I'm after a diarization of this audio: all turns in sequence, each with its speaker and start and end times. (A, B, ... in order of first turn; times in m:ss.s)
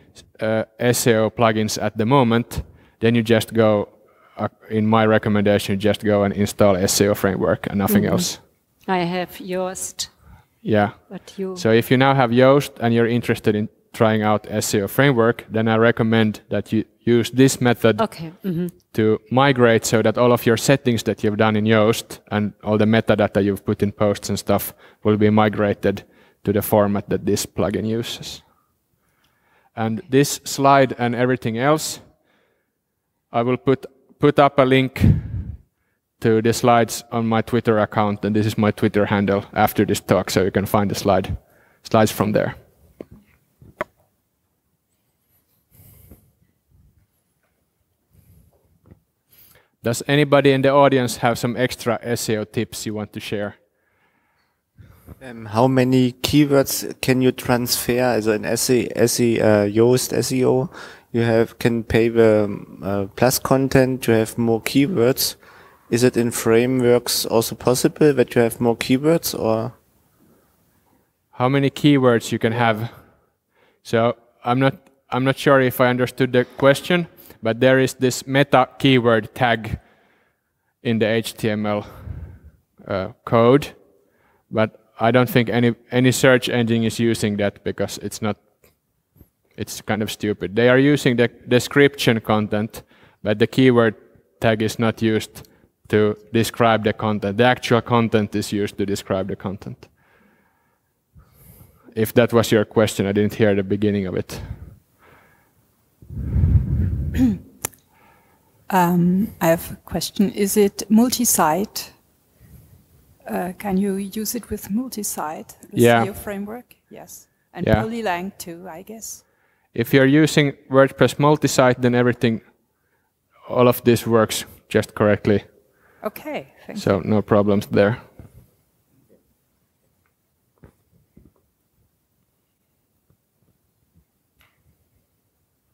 0:00.4-0:08.4 A
0:07.9-0:08.3 B
0:08.9-0:10.1 B
0:10.6-0:28.4 A
0:11.1-0:11.6 B
0:18.0-0:18.7 B
0:29.7-0:32.1 A
0:33.3-0:35.5 A
0:36.2-0:42.6 A
0:49.8-0:53.6 A
0:55.2-1:09.7 C
1:11.3-1:12.9 A
1:13.8-1:19.8 A
1:20.8-1:22.3 A
1:22.8-1:23.8 A
1:24.5-1:28.4 A
1:29.6-1:39.9 A
1:41.9-1:44.7 A
1:48.7-1:52.0 D
1:53.2-1:59.2 D
1:55.7-1:56.1 A
1:57.6-1:57.8 A
1:59.7-2:02.5 A
2:03.5-2:05.5 A
2:06.0-2:07.1 D
2:06.7-2:08.0 A